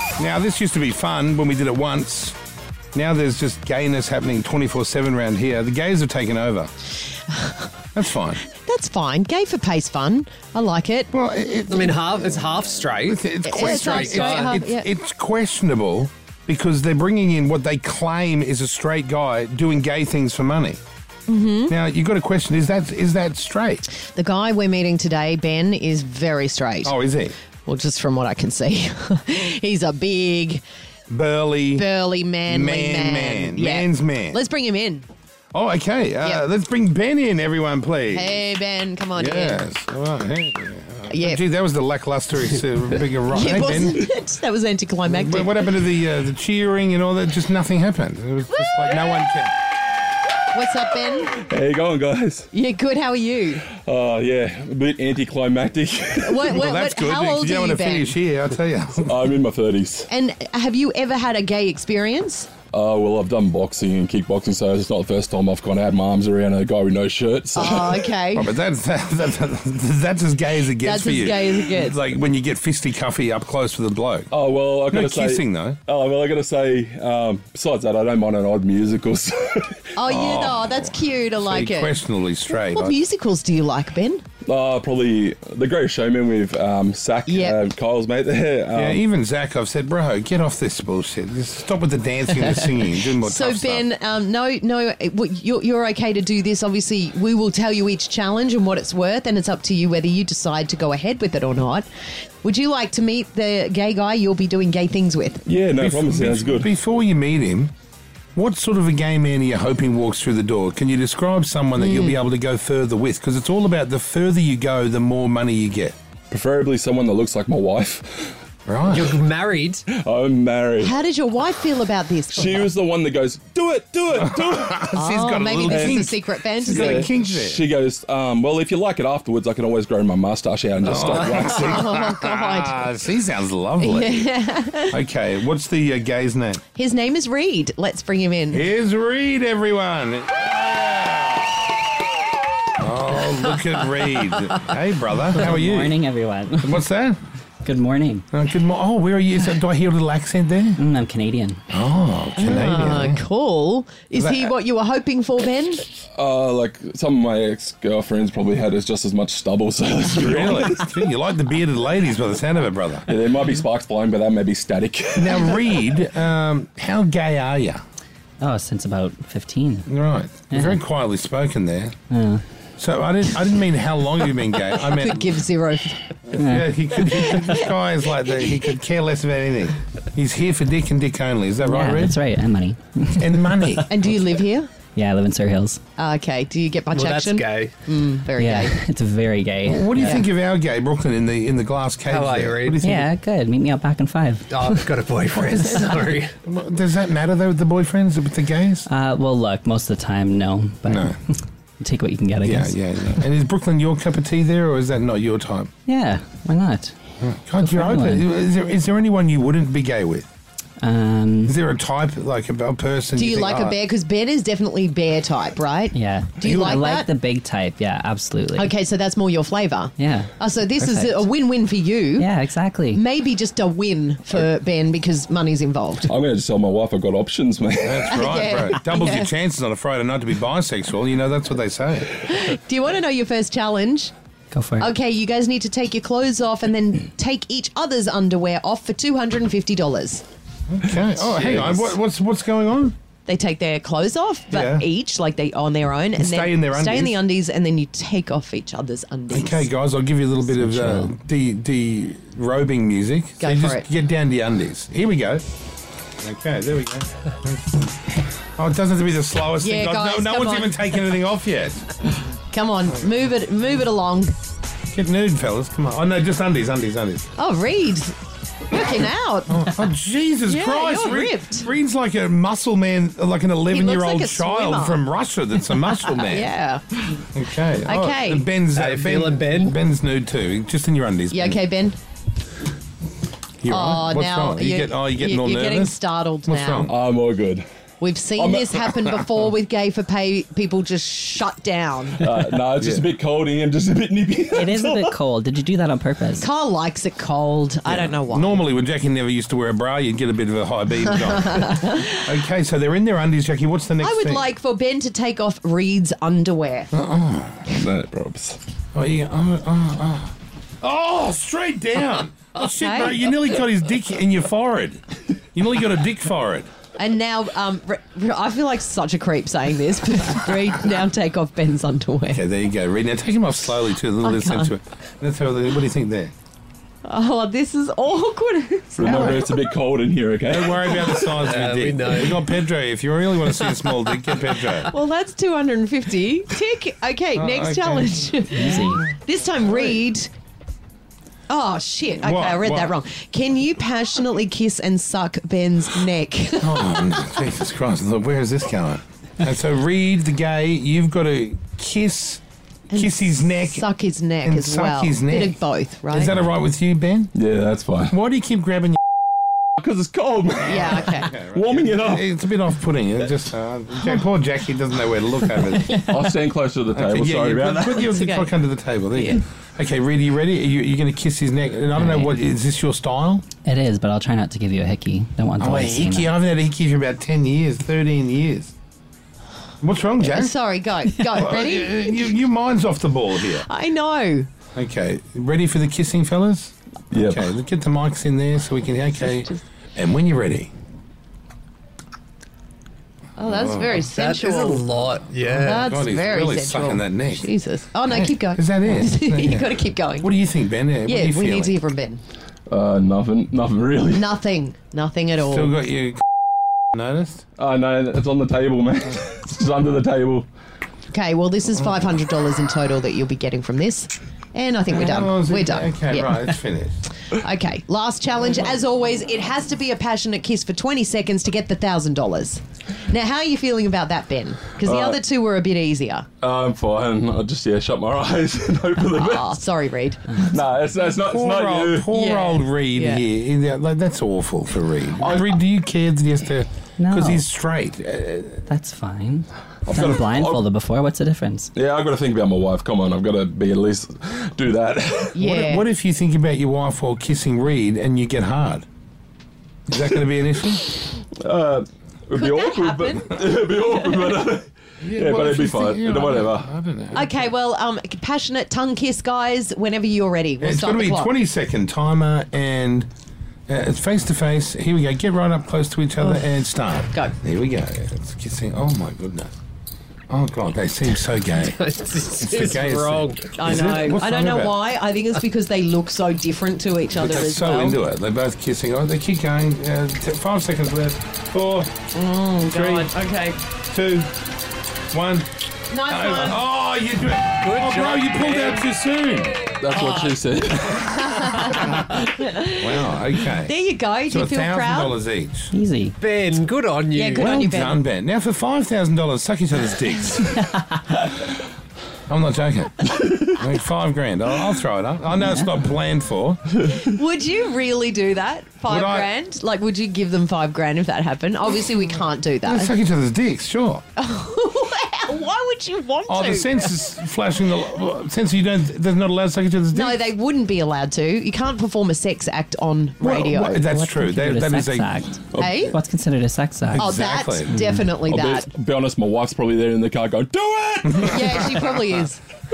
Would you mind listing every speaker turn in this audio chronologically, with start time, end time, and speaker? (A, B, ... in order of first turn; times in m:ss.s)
0:00.2-0:02.3 A
0:02.9-0:06.7 A
0:07.3-0:07.7 B
0:07.9-0:08.4 A
0:08.5-0:11.1 B
0:11.1-0:20.8 A
0:11.7-0:14.6 C
0:13.4-0:14.8 B
0:21.3-0:21.7 B
0:21.7-0:23.8 A
0:23.9-0:26.9 B
0:26.8-0:27.3 A
0:27.6-0:30.6 B
0:31.1-0:31.9 A
0:31.7-0:35.1 B
0:32.4-0:34.4 A
0:35.5-0:38.4 A
0:38.1-0:39.6 B
0:39.1-0:44.0 A
0:41.1-0:41.4 B
0:43.3-0:45.7 B
0:45.0-0:49.5 A
0:48.5-0:49.2 B
0:50.5-0:51.4 B
0:51.3-0:52.5 D
0:52.5-0:53.6 B
0:53.7-0:56.5 D
0:56.2-0:58.2 B
0:56.4-0:59.2 A
0:59.0-1:00.1 D
1:00.1-1:02.5 B
1:02.7-1:08.1 D
1:07.5-1:08.5 B
1:08.3-1:14.3 A
1:10.8-1:11.9 B
1:14.3-1:19.9 D
1:14.9-1:15.8 A
1:19.9-1:24.2 B
1:20.0-1:23.0 A
1:24.4-1:29.0 D
1:27.3-1:27.6 B
1:28.7-1:33.9 A
1:33.0-1:41.8 B
1:42.4-1:45.4 B
1:45.4-1:46.7 D
1:45.8-1:47.7 A
1:48.4-1:56.0 A
1:51.8-1:52.2 B
1:56.3-1:58.4 D
1:58.6-1:59.2 A
1:58.9-1:59.8 C
1:59.9-2:01.0 D
2:00.8-2:02.7 B
2:02.3-2:04.9 D
2:04.3-2:07.6 A
2:04.9-2:07.1 B
2:05.7-2:11.8 D
2:10.8-2:14.3 A
2:11.4-2:12.9 B
2:13.8-2:14.9 B
2:14.9-2:16.6 A
2:16.7-2:18.7 B
2:18.5-2:21.5 A
2:22.8-2:25.9 A
2:25.3-2:26.8 E
2:26.6-2:27.2 A
2:27.6-2:28.2 E
2:28.3-2:30.8 A
2:30.8-2:31.6 E
2:31.7-2:33.2 A
2:32.4-2:35.8 B
2:34.1-2:34.5 A
2:36.1-2:40.8 D
2:40.1-2:43.1 A
2:43.1-2:45.6 D
2:45.2-2:47.8 A
2:48.4-2:49.9 E
2:49.9-2:51.9 A
2:50.5-2:50.8 E
2:52.1-2:52.4 E
2:52.8-2:55.4 A
2:54.8-2:56.1 B
2:56.3-3:02.2 A
2:56.4-2:56.7 E
3:01.6-3:03.8 E
3:03.1-3:03.8 A
3:03.9-3:04.7 B
3:04.9-3:05.8 E
3:06.0-3:08.8 B
3:06.9-3:07.7 C
3:08.3-3:10.2 E
3:09.6-3:13.1 A
3:12.1-3:12.8 C
3:12.8-3:14.9 E
3:14.5-3:16.3 C
3:15.5-3:16.0 E
3:16.4-3:18.9 A
3:18.9-3:22.8 E
3:20.9-3:21.1 A
3:22.4-3:25.7 A
3:25.8-3:26.9 E
3:27.2-3:30.3 A
3:27.6-3:28.2 E
3:30.8-3:31.5 E
3:31.5-3:33.8 A
3:33.1-3:37.1 B
3:35.9-3:38.7 E
3:36.4-3:36.8 A
3:38.5-3:42.3 B
3:40.0-3:41.3 E
3:42.2-3:43.0 E
3:42.9-3:46.1 B
3:46.1-3:48.2 D
3:47.8-3:52.1 A
3:48.1-3:49.3 B
3:52.2-3:54.1 B
3:54.5-3:54.9 E
3:54.8-4:00.2 B
4:00.7-4:02.9 A
4:01.4-4:01.6 B
4:03.2-4:09.7 B
4:04.5-4:04.8 A
4:06.2-4:07.2 A
4:09.3-4:15.4 A
4:10.5-4:11.1 E
4:13.4-4:13.8 B
4:16.2-4:21.9 A
4:19.6-4:21.0 B
4:22.5-4:24.3 B
4:24.9-4:27.3 A
4:27.4-4:28.2 B
4:28.7-4:29.7 B
4:29.5-4:36.5 A
4:30.5-4:31.7 B
4:33.7-4:35.0 B
4:36.2-4:37.0 B
4:37.3-4:41.6 A
4:37.8-4:38.4 B
4:38.7-4:39.7 C
4:41.3-4:42.0 B
4:43.6-4:46.9 A
4:43.7-4:46.9 B
4:46.8-4:47.6 D
4:48.0-4:52.2 B
4:48.4-4:48.9 D
4:52.2-4:55.2 D
4:52.8-4:53.1 A
4:54.5-4:56.5 E
4:56.4-4:58.6 B
4:57.8-5:04.5 A
5:01.4-5:02.1 B
5:04.0-5:06.9 B
5:06.9-5:07.6 A
5:07.7-5:08.6 D
5:08.9-5:15.0 A
5:12.5-5:13.2 B
5:15.5-5:16.7 A
5:17.0-5:22.4 B
5:22.3-5:26.3 A
5:24.2-5:24.7 B
5:27.0-5:29.5 B
5:29.0-5:31.2 D
5:29.0-5:29.4 A
5:30.4-5:34.9 A
5:31.3-5:32.6 C
5:34.9-5:40.3 B
5:37.3-5:38.3 A
5:38.5-5:39.0 E
5:41.5-5:47.1 B
5:42.2-5:43.0 A
5:46.6-5:52.4 A
5:52.9-5:56.4 B
5:52.9-5:53.8 A
5:54.4-5:57.3 A
5:57.3-5:58.1 D
5:58.1-5:59.0 A
5:59.8-6:02.4 D
6:00.6-6:01.3 B
6:00.8-6:06.0 A
6:06.0-6:08.1 D
6:06.9-6:13.4 A
6:08.1-6:08.5 B
6:09.1-6:09.4 B
6:12.0-6:12.4 E
6:13.6-6:16.3 E
6:15.6-6:18.7 A
6:19.8-6:20.5 A
6:20.2-6:22.4 B
6:21.3-6:23.6 A
6:23.5-6:24.5 B
6:24.7-6:30.7 A
6:27.1-6:27.5 D
6:33.4-6:34.9 B
6:33.4-6:34.0 A
6:34.1-6:35.8 C
6:35.4-6:37.5 A
6:35.6-6:40.3 B
6:38.1-6:41.8 A
6:41.0-6:42.2 B
6:42.7-6:44.3 D
6:44.1-6:45.8 B
6:45.4-6:46.2 A
6:46.9-6:47.4 A
6:47.6-6:50.4 D
6:51.1-6:56.4 B
6:54.9-6:57.0 A
6:57.3-7:06.3 B
7:04.8-7:05.2 D
7:06.4-7:09.5 D
7:09.0-7:10.5 B
7:10.4-7:12.1 D
7:11.2-7:18.6 A
7:12.1-7:13.2 B
7:15.2-7:15.5 D
7:17.0-7:17.4 E
7:18.7-7:21.7 E
7:19.8-7:20.6 D
7:21.7-7:25.4 D
7:25.3-7:25.9 B
7:25.4-7:28.8 A
7:29.9-7:31.0 A
7:30.9-7:36.7 D
7:32.3-7:34.3 B
7:35.0-7:37.5 A
7:37.1-7:41.3 B
7:40.6-7:43.1 A
7:43.7-7:49.5 A
7:46.2-7:46.5 B
7:47.0-7:47.3 B
7:50.3-7:51.8 A
7:51.5-7:53.6 C
7:52.4-7:54.8 A
7:53.5-7:58.0 B
7:57.1-8:01.9 A
8:02.1-8:03.6 B
8:02.6-8:03.1 A
8:03.9-8:04.3 A
8:05.1-8:05.5 A
8:05.9-8:06.6 B
8:06.0-8:09.6 A
8:07.6-8:08.8 C
8:09.8-8:11.7 D
8:10.0-8:10.3 B
8:10.9-8:15.1 B
8:12.8-8:13.7 A
8:14.2-8:15.7 A
8:15.7-8:16.1 E
8:16.2-8:17.8 C
8:17.1-8:18.0 B
8:17.3-8:20.6 A
8:22.3-8:26.6 A
8:25.4-8:25.7 E
8:26.8-8:32.9 B
8:28.8-8:29.3 A
8:32.6-8:34.0 A
8:34.2-8:36.8 B
8:36.3-8:40.3 A
8:39.9-8:44.0 B
8:43.2-8:45.2 A
8:44.0-8:47.1 E
8:45.6-8:46.0 B
8:46.9-8:47.7 A
8:47.0-8:48.7 B
8:47.7-8:48.0 E
8:48.3-8:51.8 D
8:51.0-8:51.5 A
8:51.2-8:52.4 B